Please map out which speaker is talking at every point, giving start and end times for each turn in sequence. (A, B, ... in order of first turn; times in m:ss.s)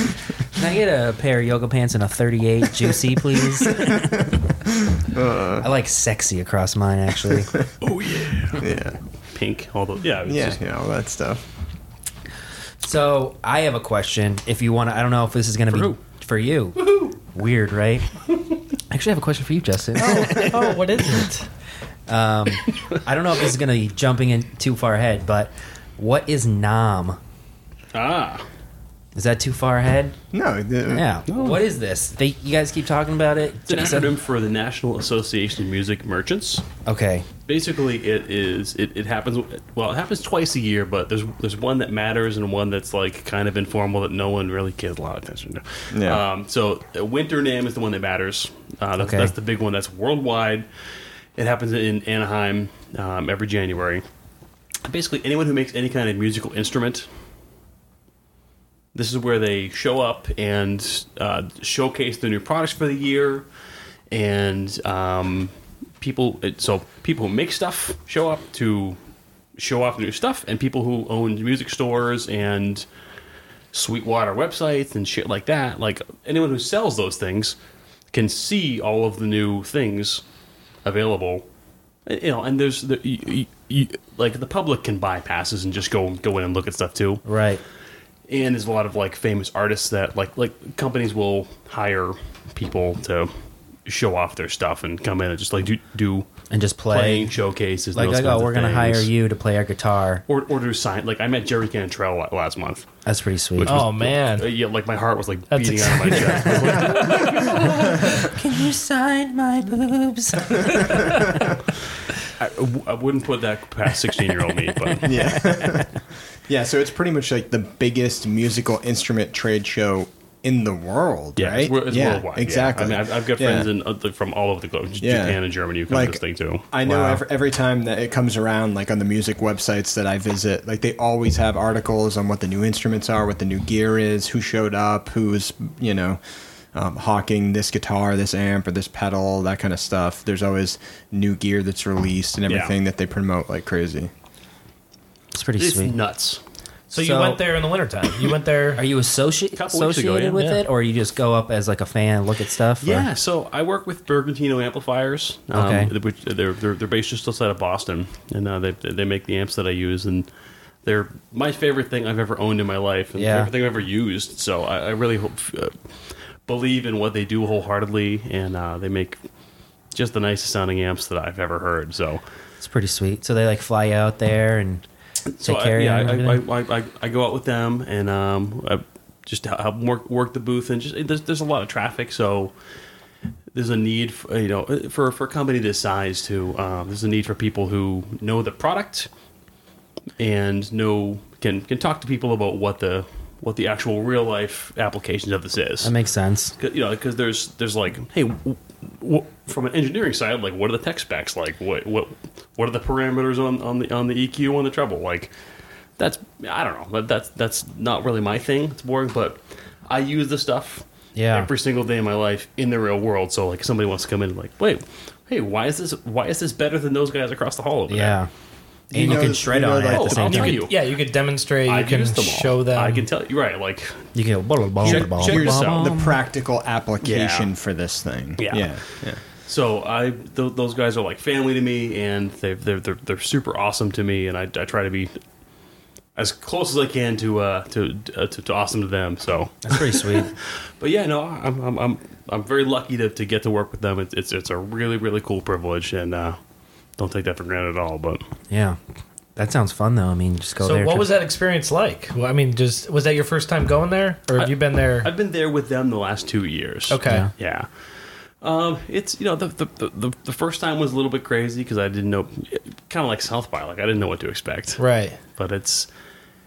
0:00.5-0:04.1 A
0:04.9-0:05.7 B
0:05.6-0:07.5 A
0:07.8-0:08.7 C
0:08.5-0:09.0 B
0:09.3-0:10.6 C
0:10.2-0:11.4 B
0:12.8-0:18.1 A
0:15.7-0:16.0 C
0:16.8-0:17.1 C
0:18.9-0:20.6 A
0:20.0-0:21.5 D
0:20.2-0:20.6 C
0:22.1-0:27.2 A
0:27.9-0:28.4 C
0:29.1-0:30.2 A
0:30.3-0:31.0 B
0:30.9-0:34.1 A
0:31.3-0:31.6 C
0:33.7-0:36.6 C
0:36.8-0:37.3 A
0:37.4-0:50.7 C
0:45.9-0:46.2 B
0:49.0-0:49.3 A
0:51.4-0:54.0 C
0:54.8-0:57.1 C
0:58.9-1:03.4 C
1:04.1-1:09.0 C
1:09.6-1:12.8 C
1:13.7-1:17.6 C
1:18.1-1:20.2 C
1:20.8-1:21.4 C
1:22.0-1:27.2 C
1:27.2-1:27.6 A
1:28.3-1:33.3 C
1:33.8-1:36.3 C
1:36.5-1:37.3 A
1:36.9-1:39.1 C
1:37.9-1:40.2 A
1:40.3-1:42.9 C
1:43.0-1:43.9 A
1:43.6-1:48.0 C
1:43.6-1:44.5 D
1:45.5-1:48.2 D
1:47.3-1:51.5 A
1:50.6-1:51.4 B
1:52.4-1:55.5 C
1:54.7-1:55.9 A
1:55.0-1:55.9 B
1:56.5-2:03.7 B
2:01.4-2:07.2 C
2:05.0-2:16.2 B
2:16.7-2:24.1 B
2:22.5-2:22.7 C
2:25.3-2:25.9 A
2:25.6-2:26.4 C
2:26.9-2:28.8 D
2:26.9-2:27.4 A
2:28.8-2:33.1 A
2:29.6-2:30.6 C
2:32.8-2:40.3 C
2:35.5-2:35.9 A
2:40.8-2:45.8 C
2:43.2-2:43.5 A
2:46.4-2:49.2 C
2:49.9-2:52.2 C
2:52.6-2:54.8 A
2:55.3-3:02.5 C
2:55.4-2:56.4 A
3:03.5-3:09.1 C
3:10.2-3:15.9 C
3:15.8-3:16.5 A
3:16.6-3:25.3 C
3:26.0-3:38.2 C
3:31.1-3:31.5 A
3:37.9-3:38.3 A
3:38.9-3:40.6 B
3:38.9-3:40.6 A
3:39.9-3:40.8 C
3:40.4-3:43.1 D
3:41.6-3:44.1 C
3:44.1-3:46.2 A
3:44.8-3:45.9 C
3:44.8-3:49.2 B
3:47.0-3:47.5 C
3:48.4-3:48.8 C
3:49.4-3:55.1 C
3:56.2-4:06.4 C
3:59.6-4:00.3 A
4:07.0-4:08.2 C
4:08.5-4:08.8 A
4:09.4-4:11.1 A
4:10.6-4:15.1 D
4:14.4-4:17.7 C
4:16.9-4:17.3 D
4:17.0-4:17.3 A
4:18.4-4:25.9 C
4:24.8-4:25.2 D